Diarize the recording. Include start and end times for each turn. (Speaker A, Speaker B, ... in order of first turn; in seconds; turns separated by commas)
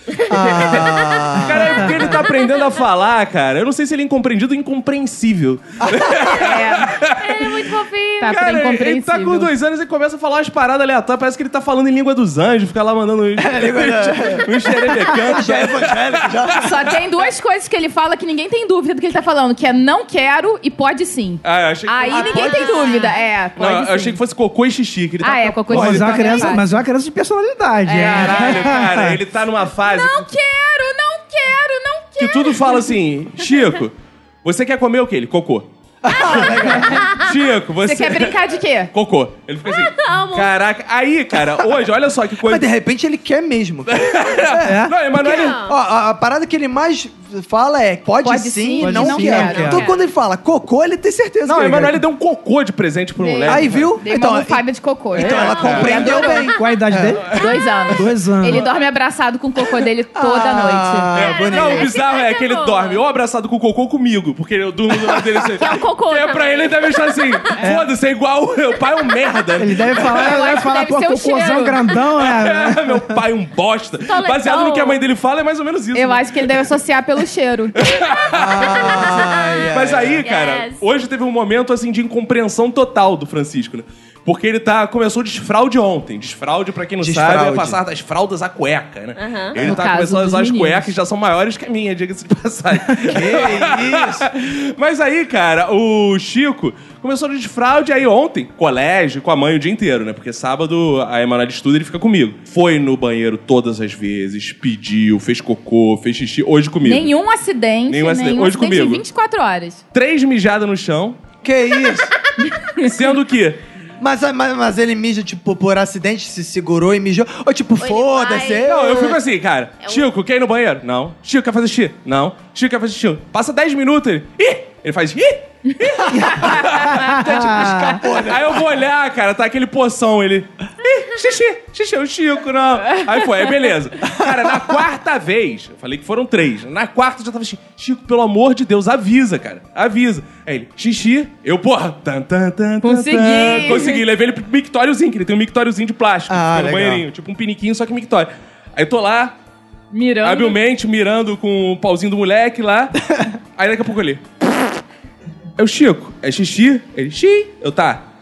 Speaker A: 0.3-2.2, Speaker B: 0.4-7.6, Speaker A: 5.8-6.4, Speaker C: 6.4-6.9, Speaker D: 7.0-8.4, Speaker C: 8.2-9.5, Speaker B: 8.2-16.7, Speaker A: 13.4-16.8, Speaker C: 16.6-24.2, Speaker B: 21.4-22.8, Speaker A: 22.1-23.0, Speaker D: 22.4-23.1, Speaker B: 23.6-26.5, Speaker C: 25.2-26.7, Speaker E: 25.7-29.2, Speaker B: 27.9-30.3, Speaker C: 27.9-28.7, Speaker C: 29.8-32.9, Speaker B: 32.2-35.7, Speaker A: 36.0-37.2, Speaker D: 36.1-37.1, Speaker B: 37.1-38.4, Speaker C: 37.8-38.9, Speaker B: 38.9-42.7, Speaker D: 39.7-40.5, Speaker A: 42.4-52.0, Speaker B: 43.9-45.6, Speaker E: 44.6-45.0, Speaker D: 45.1-45.8, Speaker C: 48.2-49.8, Speaker E: 48.8-49.9, Speaker D: 49.6-50.0, Speaker B: 51.5-54.0, Speaker C: 53.2-56.6, Speaker A: 53.5-57.2, Speaker B: 55.2-56.2, Speaker E: 56.5-57.4, Speaker C: 57.2-61.3, Speaker E: 57.9-58.7, Speaker A: 60.2-61.9, Speaker D: 61.2-63.0, Speaker B: 61.2-70.4, Speaker D: 65.6-67.2, Speaker E: 69.6-73.2, Speaker C: 70.1-71.8, Speaker B: 72.2-76.6, Speaker D: 74.1-75.0, Speaker C: 75.9-77.9, Speaker B: 77.8-107.1, Speaker A: 78.3-80.2, Speaker D: 78.6-79.7, Speaker D: 80.2-80.8, Speaker A: 87.0-87.8, Speaker D: 89.2-89.6, Speaker A: 89.6-89.8, Speaker C: 89.6-90.9, Speaker A: 93.0-94.3, Speaker C: 106.8-109.8, Speaker B: 107.9-109.0, Speaker B: 109.9-111.2, Speaker A: 111.4-112.1, Speaker C: 112.5-112.9, Speaker B: 112.8-113.6, Speaker A: 114.0-119.2, Speaker D: 117.8-118.7, Speaker B: 118.7-149.3, Speaker A: 126.1-126.5, Speaker E: 126.9-128.0, Speaker A: 127.2-128.7, Speaker C: 142.8-144.0, Speaker A: 146.3-147.0, Speaker C: 149.9-150.6, Speaker B: 150.2-152.9, Speaker B: 153.6-154.2, Speaker B: 155.6-158.0